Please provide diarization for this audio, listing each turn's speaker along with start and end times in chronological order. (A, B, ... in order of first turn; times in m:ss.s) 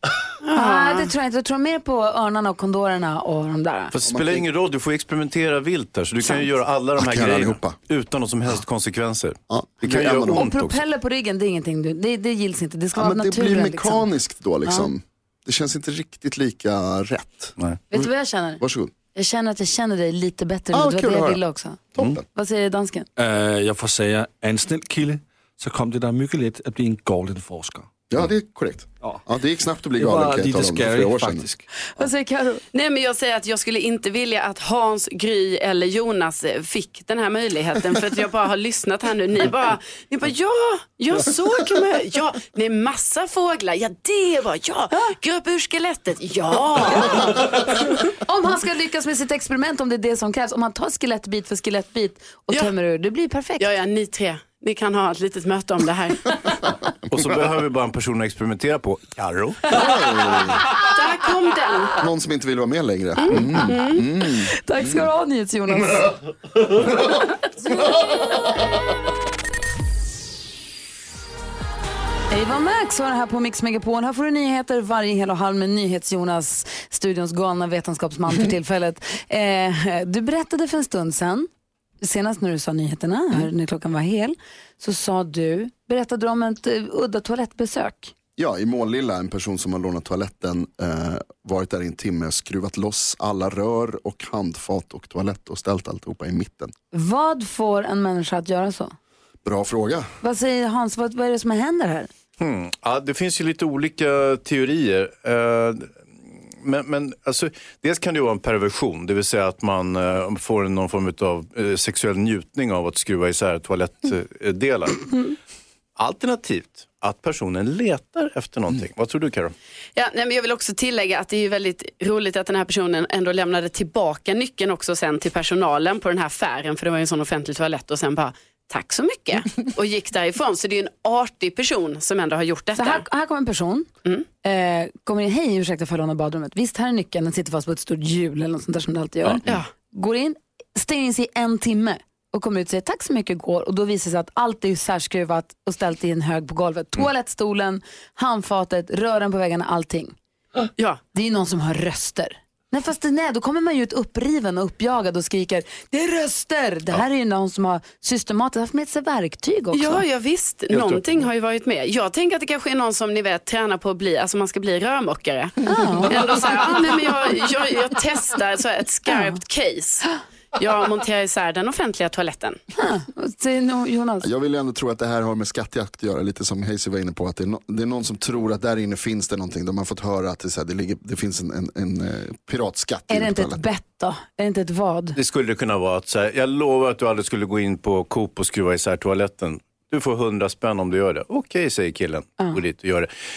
0:00.4-0:01.1 A
0:00.5-0:03.9 B
0:03.9-0:10.8 C
0:04.0-0:04.4 D
0:07.0-0:07.8 D
0:09.5-0:10.5 D
0:10.3-0:14.0 B
0:12.9-0:17.5 D
0:14.6-0:14.9 B
0:17.9-0:18.6 B
0:18.6-0:18.9 D
0:19.1-0:23.1 B
0:20.7-0:21.4 D
0:22.0-0:22.2 D
0:23.2-0:27.9 E
0:28.1-0:31.5 D
0:29.9-0:31.7 E
0:31.9-0:32.6 B
0:32.7-0:47.9 A
0:48.1-0:53.7 B
0:53.6-0:56.7 A
0:57.1-0:59.8 C
0:59.7-1:00.6 D
1:00.8-1:02.0 A
1:02.0-1:05.0 D
1:03.2-1:04.0 A
1:03.3-1:03.6 B
1:04.5-1:06.2 B
1:12.3-1:21.5 B
1:22.0-1:28.1 B
1:28.4-1:36.7 D
1:36.9-1:38.9 B
1:39.4-1:40.1 D
1:40.2-1:42.1 B
1:42.4-1:46.0 C
1:46.5-1:55.3 C
1:56.0-1:59.5 C
2:00.0-2:13.0 A
2:12.8-2:13.9 B
2:14.4-2:30.1 B
2:31.1-2:40.0 B
2:39.7-2:52.6 A
2:40.7-2:41.0 C
2:45.6-2:46.6 B
2:52.8-2:54.3 B
2:54.2-3:03.6 D
3:03.1-3:05.2 B
3:05.2-3:13.1 C